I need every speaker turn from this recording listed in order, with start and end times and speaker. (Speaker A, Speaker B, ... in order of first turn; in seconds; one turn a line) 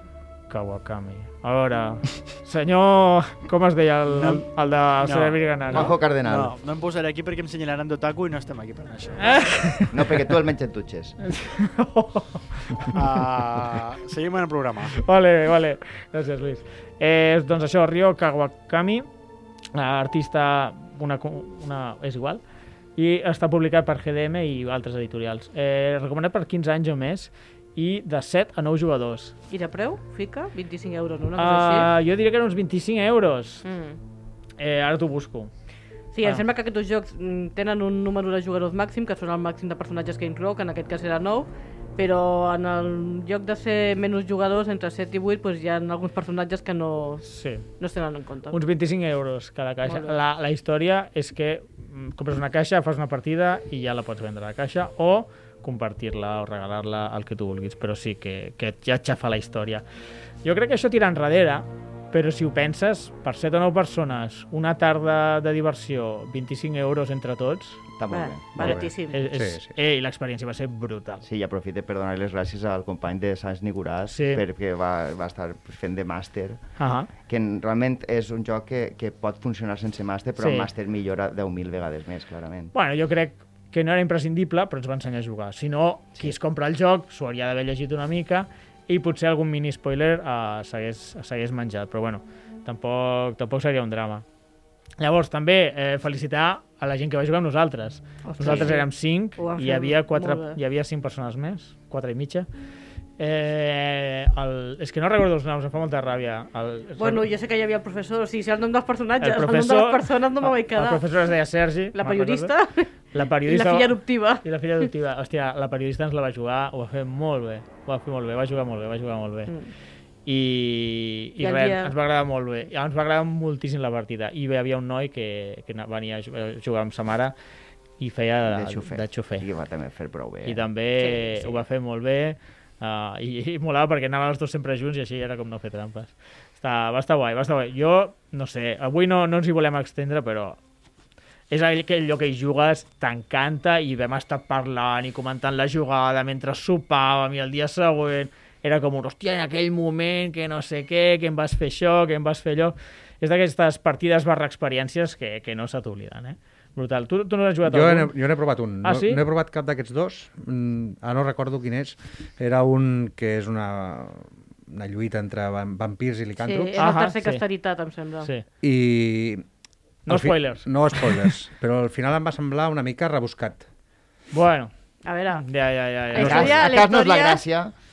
Speaker A: 0.5-5.9
Speaker B: 4.1-4.5
Speaker B: 5.0-9.8
Speaker C: 5.7-6.5
Speaker A: 9.2-10.0
Speaker C: 9.9-11.2
Speaker A: 11.2-12.9
Speaker B: 12.9-15.0
Speaker A: 15.0-19.1
Speaker A: 19.7-22.4
Speaker A: 23.0-29.3
Speaker D: 29.5-31.9
Speaker A: 31.4-33.6
Speaker D: 33.6-34.0
Speaker A: 34.6-35.5
Speaker D: 36.1-47.2
Speaker A: 47.2-47.6
Speaker D: 47.8-48.6
Speaker A: 48.5-59.8
Speaker D: 49.8-50.1
Speaker A: 60.4-67.8
Speaker C: 68.0-68.8
Speaker D: 68.1-69.2
Speaker E: 68.6-69.7
Speaker A: 69.1-71.2
Speaker C: 71.2-76.6
Speaker A: 74.1-74.4
Speaker A: 76.8-77.1
Speaker C: 77.3-82.7
Speaker A: 80.4-80.7
Speaker A: 82.7-94.2
Speaker A: 95.0-102.5
Speaker D: 98.2-100.6
Speaker A: 103.2-107.2
Speaker D: 107.0-111.0
Speaker A: 109.2-112.5
Speaker D: 111.9-112.9
Speaker A: 113.1-119.5
Speaker D: 113.5-114.4
Speaker A: 120.2-127.3
Speaker D: 121.4-121.9
Speaker A: 128.0-129.4
Speaker C: 128.4-130.6
Speaker A: 130.4-140.6
Speaker D: 131.0-131.6
Speaker A: 141.5-158.1
Speaker E: 157.7-166.8
Speaker A: 158.8-159.2
Speaker D: 166.4-168.3
Speaker A: 166.8-167.4
Speaker E: 168.6-169.4
Speaker A: 170.1-171.3
Speaker E: 170.1-173.6
Speaker A: 174.3-174.7
Speaker D: 175.0-175.4
Speaker A: 175.4-176.7
Speaker D: 176.1-177.4
Speaker C: 176.2-177.7